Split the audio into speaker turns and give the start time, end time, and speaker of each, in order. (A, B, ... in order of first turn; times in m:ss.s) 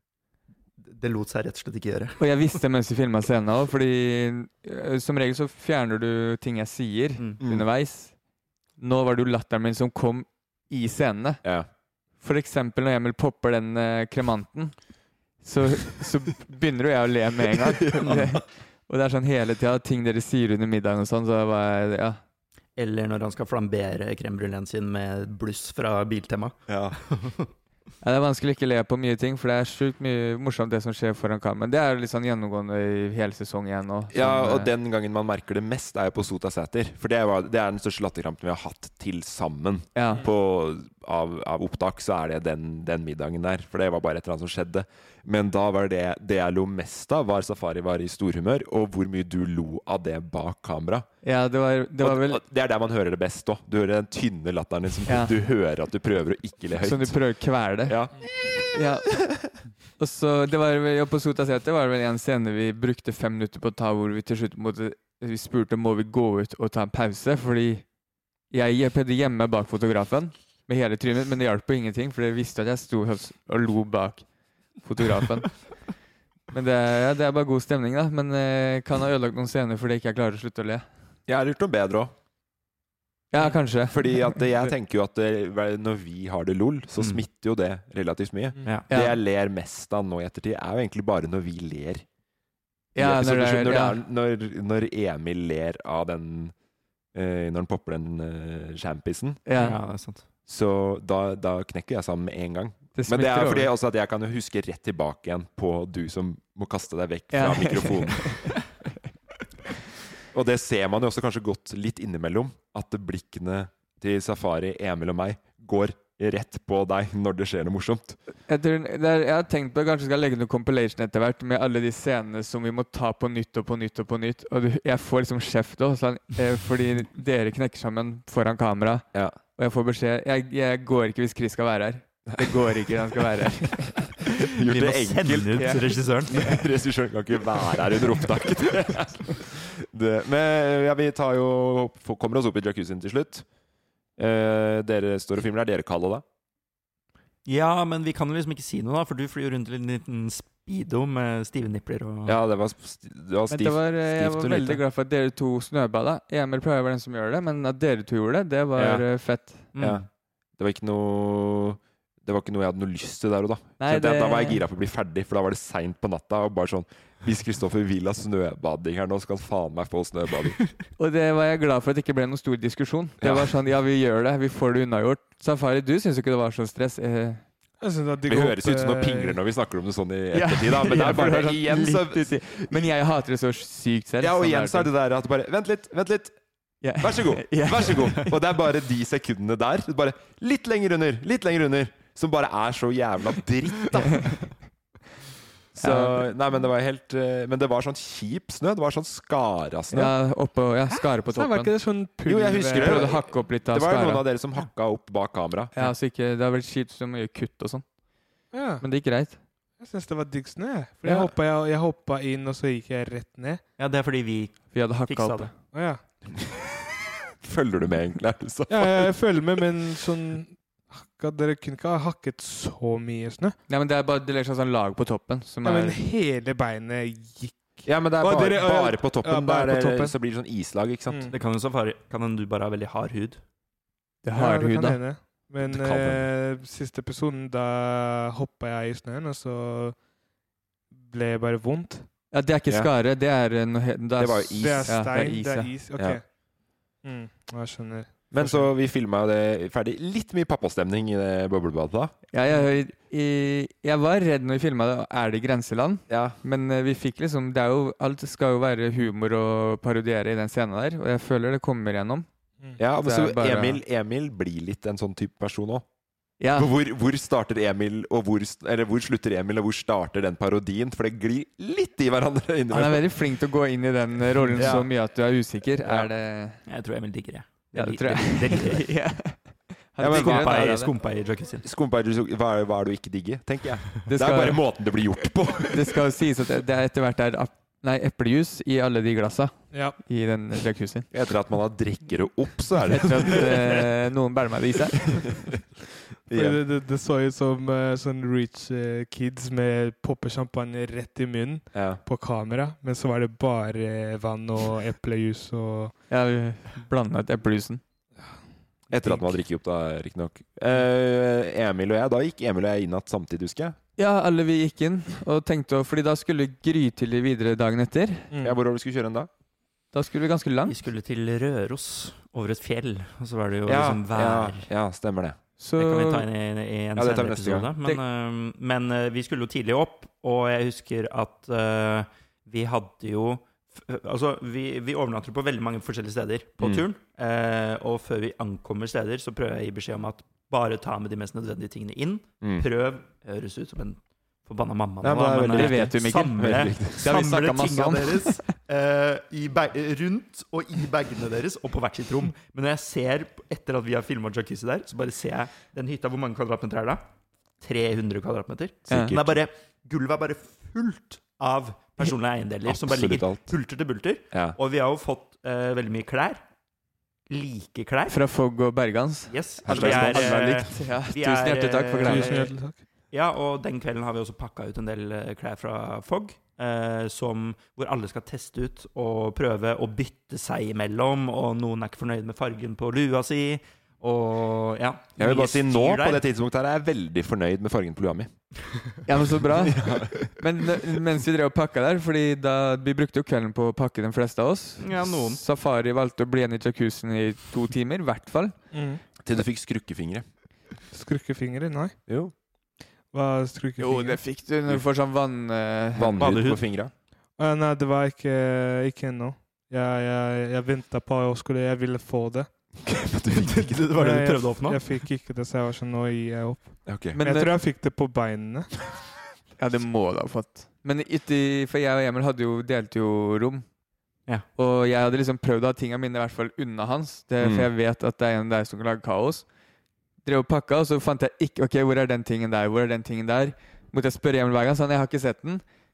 0:00.8-0:02.2 A
0:02.2-0:08.1 B
0:08.8-0:11.4 B
0:12.2-0:14.8 B
0:15.4-0:22.2 B
0:17.5-0:18.4 C
0:22.8-0:27.5 A
0:26.7-0:27.0 C
0:28.0-0:34.7 B
0:34.1-0:51.1 C
0:39.9-0:40.2 B
0:51.2-0:52.4 B
0:52.0-0:57.2 C
0:55.1-0:55.3 B
0:56.8-0:58.0 B
0:57.8-0:58.7 C
0:58.7-0:59.1 B
1:00.0-1:07.8 B
1:08.5-1:14.2 B
1:14.8-1:15.8 B
1:16.5-1:20.9 B
1:21.3-1:22.1 C
1:23.3-1:24.0 B
1:23.9-1:32.0 C
1:27.0-1:27.2 A
1:28.9-1:29.2 B
1:32.9-1:34.0 B
1:33.0-1:36.5 C
1:37.1-1:39.4 C
1:39.4-1:39.8 B
1:39.6-1:40.2 A
1:40.5-1:48.4 C
1:42.9-1:43.7 B
1:47.3-1:48.6 B
1:50.3-1:58.2 C
1:58.5-2:14.0 B
2:12.3-2:13.2 C
2:14.0-2:23.4 C
2:14.6-2:16.4 A
2:15.6-2:16.6 B
2:24.2-2:26.2 C
2:27.4-2:32.4 A
2:32.2-2:34.8 C
2:33.5-2:39.7 B
2:38.8-2:39.0 C
2:39.7-2:40.0 A
2:39.8-2:40.0 C
2:40.6-2:50.6 C
2:43.8-2:44.6 B
2:51.0-2:57.4 B
2:53.2-2:53.5 C
2:57.8-2:59.4 D
2:58.2-3:02.9 C
3:00.3-3:04.9 B
3:04.2-3:06.4 C
3:06.8-3:08.2 B
3:07.0-3:14.4 C
3:15.7-3:20.1 C
3:15.8-3:16.3 B
3:19.9-3:21.7 B
3:21.3-3:23.1 D
3:22.2-3:25.7 C
3:22.7-3:24.2 B
3:25.7-3:27.8 B
3:28.5-3:28.8 D
3:28.8-3:29.4 B
3:29.8-3:33.6 D
3:31.0-3:31.3 C
3:33.8-3:35.5 A
3:34.7-3:35.5 B
3:35.7-3:36.0 D
3:37.4-3:39.4 C
3:38.7-3:43.6 D
3:43.7-3:46.0 B
3:45.6-3:50.1 D
3:47.8-3:51.3 C
3:51.1-3:51.3 D
3:51.3-3:53.4 A
3:54.2-3:55.0 B
3:54.3-4:00.0 D
3:55.6-3:56.3 C
4:00.9-4:02.1 D
4:02.3-4:05.7 B
4:04.2-4:05.1 C
4:04.6-4:06.3 D
4:07.0-4:08.7 D
4:08.3-4:12.1 C
4:12.3-4:22.2 B
4:16.1-4:16.4 C
4:22.8-4:25.8 C
4:23.0-4:23.8 B
4:26.4-4:26.7 B
4:26.5-4:33.1 C
4:32.7-4:36.6 B
4:34.5-4:34.9 C
4:35.8-4:36.1 C
4:36.7-4:38.9 A
4:37.7-4:40.9 B
4:40.0-4:40.9 C
4:40.1-4:41.6 A
4:41.6-4:46.0 C
4:44.1-4:44.6 B
4:45.7-4:51.1 B
4:49.7-4:50.0 D
4:51.1-4:53.8 C
4:52.9-4:55.2 B
4:56.3-4:56.6 C
4:56.3-5:05.9 D
5:01.7-5:02.0 C
5:06.1-5:07.8 B
5:08.9-5:13.8 C
5:14.0-5:18.3 B
5:18.3-5:18.6 D
5:18.4-5:19.3 C
5:19.9-5:20.7 B
5:20.7-5:24.7 A
5:23.7-5:25.4 C
5:25.6-5:26.2 B
5:25.8-5:57.0 A
5:27.0-5:27.7 C
5:36.6-5:36.8 C
5:45.0-5:47.1 C
5:45.5-5:46.5 B
5:47.0-5:48.4 B
5:57.6-6:06.4 A
5:58.9-5:59.3 C
6:02.6-6:03.4 C
6:07.3-6:08.2 A
6:08.1-6:12.4 B
6:09.3-6:12.5 A
6:09.6-6:10.7 C
6:12.0-6:12.8 D
6:13.1-6:26.2 A
6:25.2-6:28.3 C
6:29.0-6:38.6 B
6:29.4-6:31.0 C
6:34.8-6:35.4 A
6:38.7-6:39.0 D
6:39.2-6:40.2 C
6:40.9-6:42.0 D
6:42.1-6:42.3 C
6:43.1-6:44.2 D
6:43.8-6:46.3 B
6:46.0-6:46.9 C
6:46.2-6:46.6 A
6:47.4-6:52.5 D
6:52.8-6:53.8 C
6:53.3-6:54.8 A
6:53.9-6:58.8 D
6:56.8-6:57.2 C
6:57.2-6:57.6 B
6:59.6-7:03.6 B
7:04.6-7:09.4 B
7:07.4-7:07.7 C
7:10.2-7:15.6 B